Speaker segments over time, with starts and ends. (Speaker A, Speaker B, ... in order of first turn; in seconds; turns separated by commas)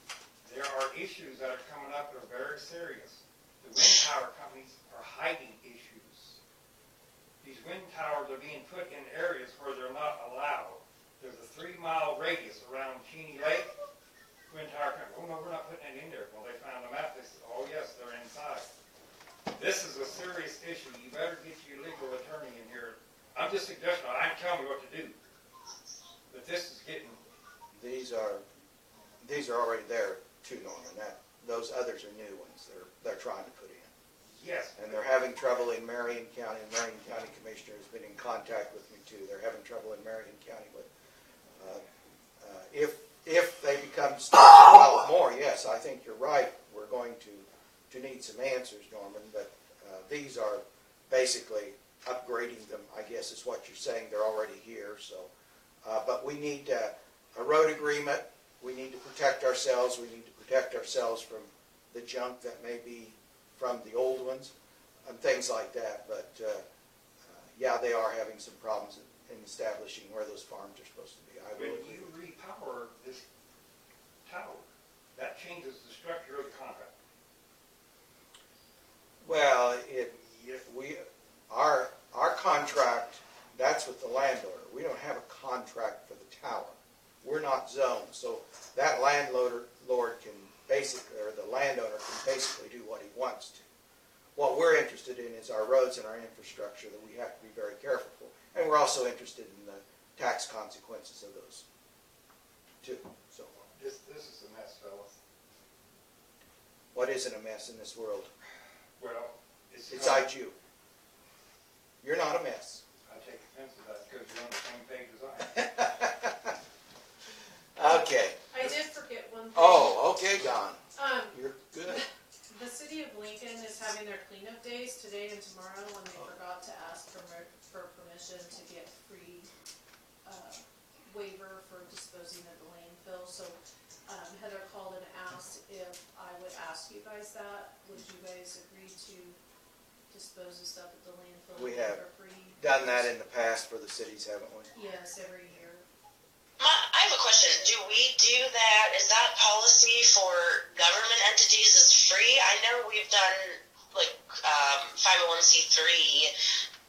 Speaker A: 0.4-6.4, Speaker A: 7.4-13.7, Speaker A: 14.5-18.7, Speaker A: 19.5-25.1, Speaker A: 26.3-27.2, Speaker B: 27.7-28.4, Speaker B: 29.2-33.9, Speaker A: 34.3-35.0, Speaker B: 34.8-40.9, Speaker B: 41.6-41.8, Speaker B: 42.4-55.3, Speaker B: 55.8-64.5, Speaker B: 65.1-66.6, Speaker B: 67.3-72.1, Speaker A: 71.5-73.2, Speaker A: 74.2-76.9, Speaker B: 79.2-93.7, Speaker A: 80.3-80.6, Speaker B: 94.4-101.7, Speaker B: 102.8-103.7, Speaker A: 103.8-105.2, Speaker B: 106.9-108.3, Speaker A: 109.0-110.3, Speaker B: 109.9-110.6, Speaker B: 112.0-112.8, Speaker A: 113.0-115.6, Speaker B: 115.5-116.6, Speaker B: 117.8-118.4, Speaker C: 117.8-120.2, Speaker B: 119.5-122.0, Speaker C: 121.0-129.5, Speaker C: 130.2-139.4, Speaker C: 140.1-143.1, Speaker B: 141.6-142.0, Speaker B: 142.6-144.7, Speaker C: 144.7-145.9, Speaker D: 146.6-156.3